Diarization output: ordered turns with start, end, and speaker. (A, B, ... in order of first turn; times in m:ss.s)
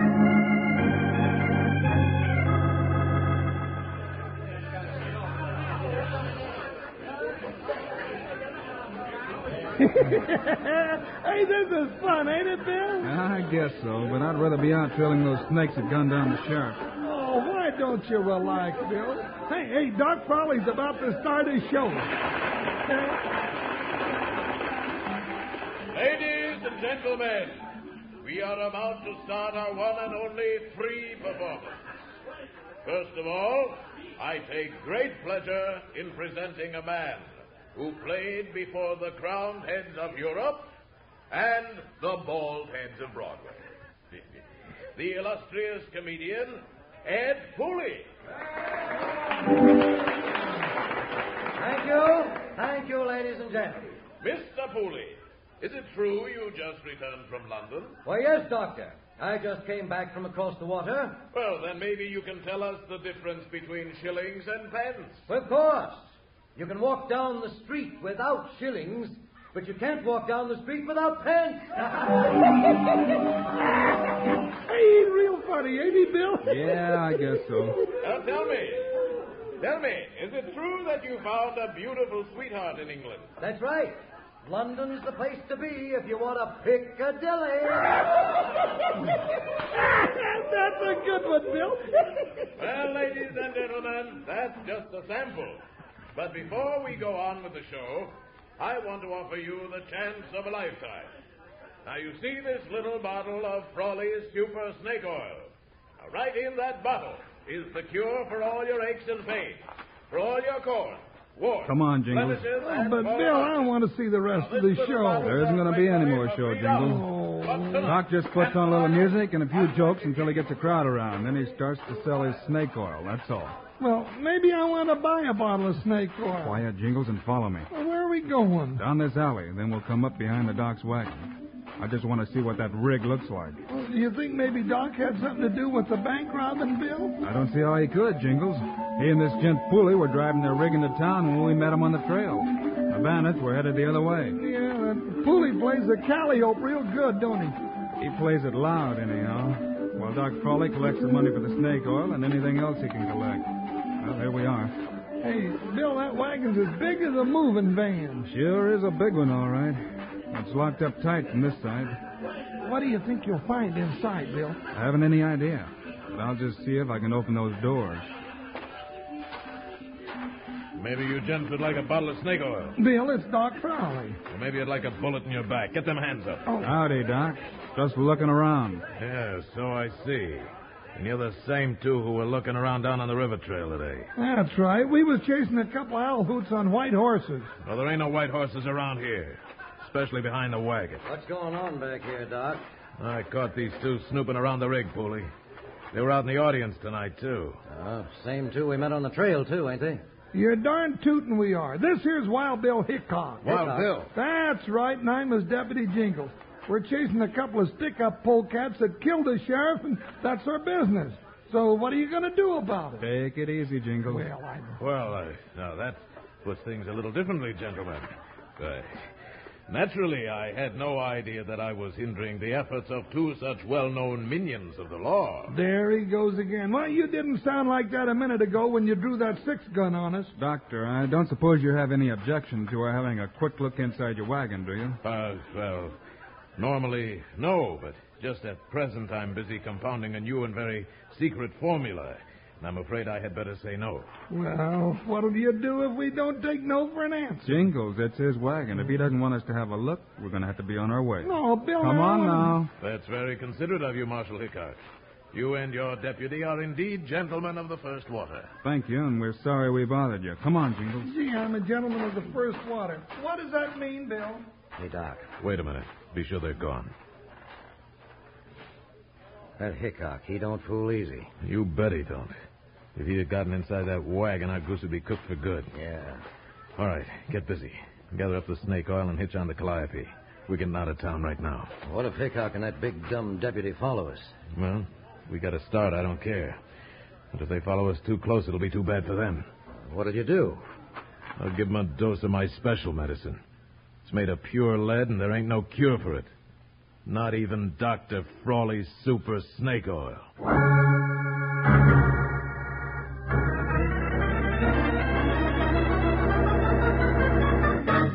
0:09.8-0:13.1 A
0:13.0-0:16.8 B
0:17.0-0:22.1 A
0:22.8-0:23.2 A
0:25.9-0:27.6 C
0:28.2-0:31.8 C
0:32.8-0:40.7 C
0:41.3-0:44.2 C
0:45.0-0:48.1 C
0:51.5-0:54.0 D
0:54.2-0:58.0 C
0:58.0-1:01.2 D
1:01.3-1:05.2 C
1:05.3-1:12.6 D
1:14.5-1:17.0 A
1:16.4-1:17.8 B
1:18.0-1:18.9 C
1:19.6-1:23.3 C
1:23.4-1:28.0 D
1:29.8-1:32.3 A
1:32.6-1:35.6 C
1:36.1-1:41.1 C
1:41.8-1:53.7 C
1:51.6-1:52.4 B
1:52.6-1:55.3 A
1:54.3-1:59.1 C
1:55.2-1:57.0 B
1:56.8-1:57.8 A
1:57.8-2:03.6 B
2:03.8-2:06.6 A
2:06.4-2:07.7 B
2:07.7-2:08.8 A
2:08.8-2:13.6 B
2:13.7-2:17.2 A
2:17.2-2:24.4 B
2:24.3-2:27.6 A
2:28.0-2:34.7 B
2:35.2-2:38.3 A
2:38.3-2:42.0 B
2:42.6-2:44.6 A
2:44.7-2:48.1 B
2:50.8-2:52.8 C
2:52.8-2:54.2 A
2:54.3-2:56.4 C
2:56.4-2:56.7 A
2:56.6-2:58.8 B
2:59.0-3:04.1 C
3:04.2-3:07.5 A
3:07.6-3:11.0 C
3:11.0-3:12.6 D
3:13.0-3:15.3 C
3:15.9-3:17.6 C
3:17.7-3:20.0 D
3:20.3-3:23.5 A
3:23.4-3:24.1 C
3:23.4-3:23.9 D
3:24.1-3:33.1 A
3:33.0-3:34.3 B
3:34.1-3:34.8 A
3:34.8-3:38.1 C
3:38.6-3:39.1 C
3:39.7-3:45.5 C
3:45.5-3:50.3 A
3:50.4-3:55.0 B
3:55.0-3:56.0 C
3:56.6-4:04.1 C
4:04.3-4:07.6 A
4:07.4-4:12.7 B
4:11.2-4:12.6 A
4:12.8-4:14.8 C
4:15.3-4:18.5 C
4:18.6-4:21.1 B
4:21.0-4:24.4 A
4:24.8-4:25.3 D
4:25.4-4:26.9 C
4:29.6-4:31.3 D
4:31.4-4:32.3 C
4:32.9-4:35.7 C
4:35.7-4:36.2 D
4:36.8-4:41.7 C
4:41.8-4:44.4 D
4:44.5-4:46.6 C
4:47.3-4:49.4 C
4:49.9-4:50.6 D
4:51.4-4:53.4 C
4:54.0-4:56.3 C
4:57.0-5:00.2 C